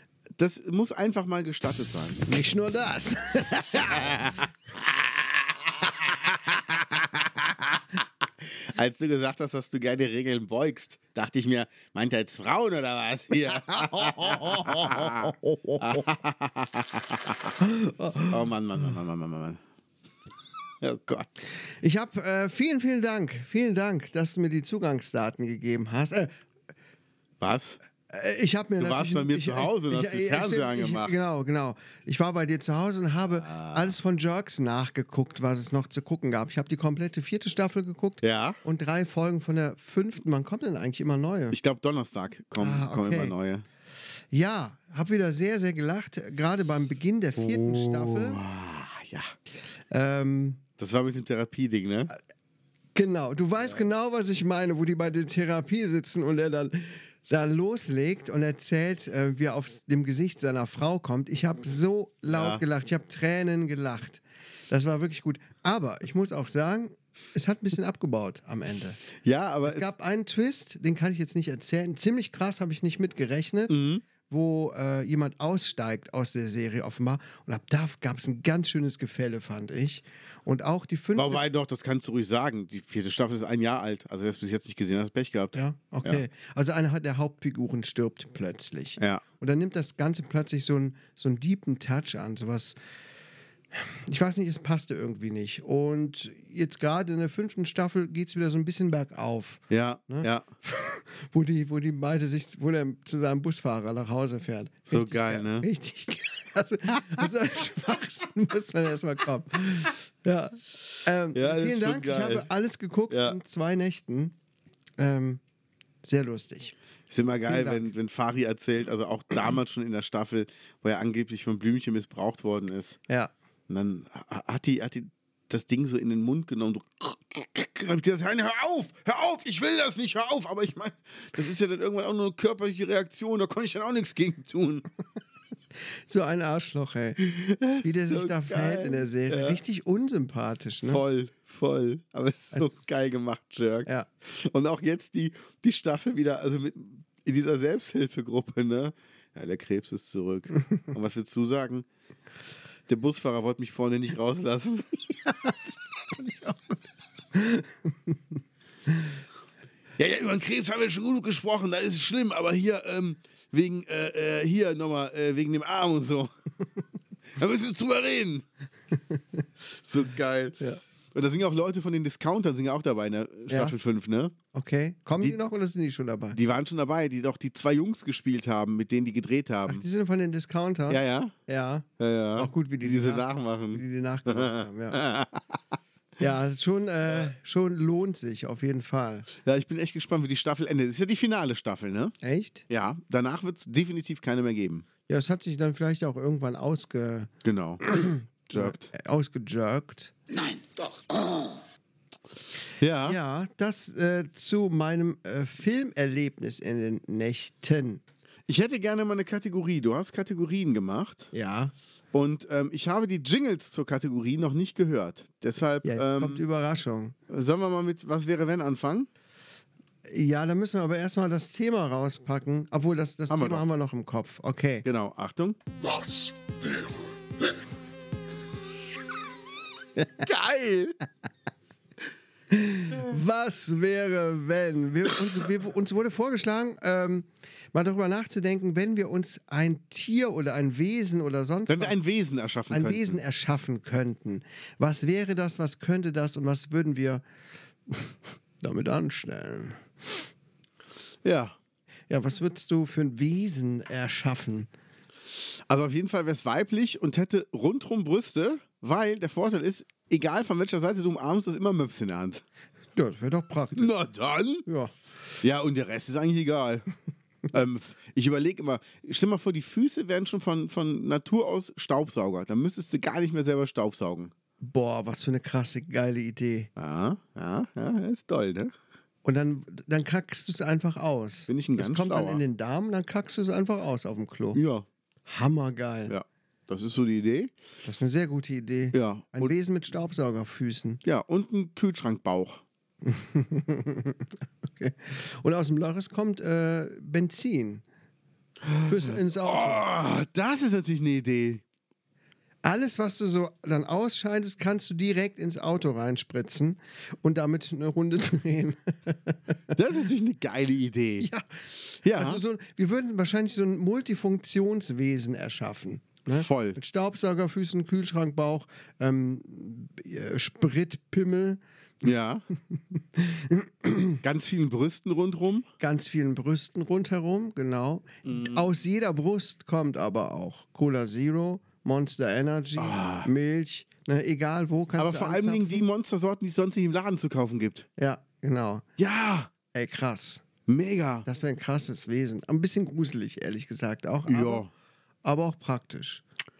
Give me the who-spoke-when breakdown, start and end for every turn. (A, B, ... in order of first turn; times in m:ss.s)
0:00.4-0:02.3 A
0:02.3-0:04.2 B
0:03.7-0:17.5 A
0:13.5-0:16.1 B
0:17.6-0:18.4 B
0:18.3-0:19.6 A
0:20.8-0:21.3 A
0:21.8-0:26.3 B
0:27.4-0:27.8 A
0:28.1-0:41.6 B
0:28.8-0:31.1 A
0:33.3-0:33.9 A
0:38.2-0:38.6 A
0:41.5-0:43.6 A
0:42.6-0:43.3 B
0:44.3-0:48.4 B
0:47.4-0:49.3 A
0:49.9-0:50.6 B
0:50.8-0:52.1 A
0:52.9-1:09.0 B
1:02.3-1:02.6 A
1:09.2-1:09.9 A
1:09.6-1:13.7 B
1:13.7-1:14.0 A
1:14.3-1:21.4 B
1:21.1-1:26.2 A
1:25.5-1:32.8 B
1:29.0-1:29.2 A
1:33.7-1:54.3 B
1:39.7-1:40.5 A
1:44.9-1:45.7 A
1:51.3-1:52.5 A
1:53.1-1:53.4 A
1:55.0-1:55.4 B
1:56.0-1:56.7 B
1:57.1-2:03.0 A
1:57.5-1:57.8 B
2:03.7-2:14.8 A
2:16.1-2:17.2 B
2:17.2-2:19.6 A
2:17.8-2:21.0 B
2:20.9-2:31.8 A
2:32.9-2:35.2 A
2:35.3-2:35.6 B
2:36.1-2:36.8 B
2:37.3-2:37.7 B
2:40.0-2:46.3 A
2:47.3-2:48.4 A
2:49.7-2:50.6 A
2:51.1-2:54.3 A
2:53.5-2:53.7 B
2:54.5-2:56.4 B
2:56.3-2:59.8 A
2:59.7-3:05.0 B
3:00.9-3:01.3 A
3:02.0-3:05.6 A
3:06.2-3:09.3 B
3:09.4-3:12.1 A
3:12.2-3:12.6 B
3:12.7-3:14.8 A
3:15.1-3:17.3 B
3:17.4-3:17.8 A
3:17.8-3:20.1 B
3:18.5-3:18.9 A
3:22.8-3:23.2 A
3:23.0-3:28.0 B
3:28.5-3:31.3 A
3:31.3-3:31.7 B
3:32.1-3:36.4 A
3:35.8-3:37.1 B
3:37.3-3:39.1 A
3:40.0-3:44.8 B
3:43.3-3:43.6 A
3:44.8-3:45.6 A
3:50.2-3:51.0 A
3:52.5-4:02.0 B
4:01.7-4:03.2 A
4:02.7-4:07.2 B
4:07.9-4:10.2 B
4:11.2-4:11.6 A
4:12.1-4:14.7 B
4:15.7-4:22.4 A
4:23.0-4:24.0 B
4:23.7-4:24.6 A
4:24.6-4:24.9 B
4:25.4-4:26.8 A
4:27.5-4:34.3 A
4:34.6-4:36.7 B
4:36.8-4:38.7 A
4:39.2-4:44.6 B
4:41.5-4:42.4 A
4:44.5-4:44.8 A
4:45.3-4:46.1 B
4:46.1-4:47.5 A
4:47.8-4:51.0 B
4:48.9-4:49.5 A
4:51.0-4:52.6 A
4:53.0-4:57.8 B
4:58.6-5:01.6 A
4:58.8-4:59.8 B
5:02.6-5:09.4 B
5:09.7-5:11.3 A
5:11.2-5:11.4 B
5:12.0-5:12.4 A
5:12.1-5:21.6 B
5:16.3-5:16.8 A
5:22.0-5:22.4 A
5:22.7-5:24.2 B
5:24.2-5:25.7 A
5:25.8-5:35.8 B
5:28.2-5:28.6 A
5:32.8-5:33.3 A
5:35.0-5:37.9 A
5:38.0-5:38.8 B
5:39.0-5:39.5 A
5:39.7-5:40.4 B
5:40.7-5:41.3 A
5:41.2-5:44.7 B
5:44.3-5:44.7 A
5:45.2-5:46.2 B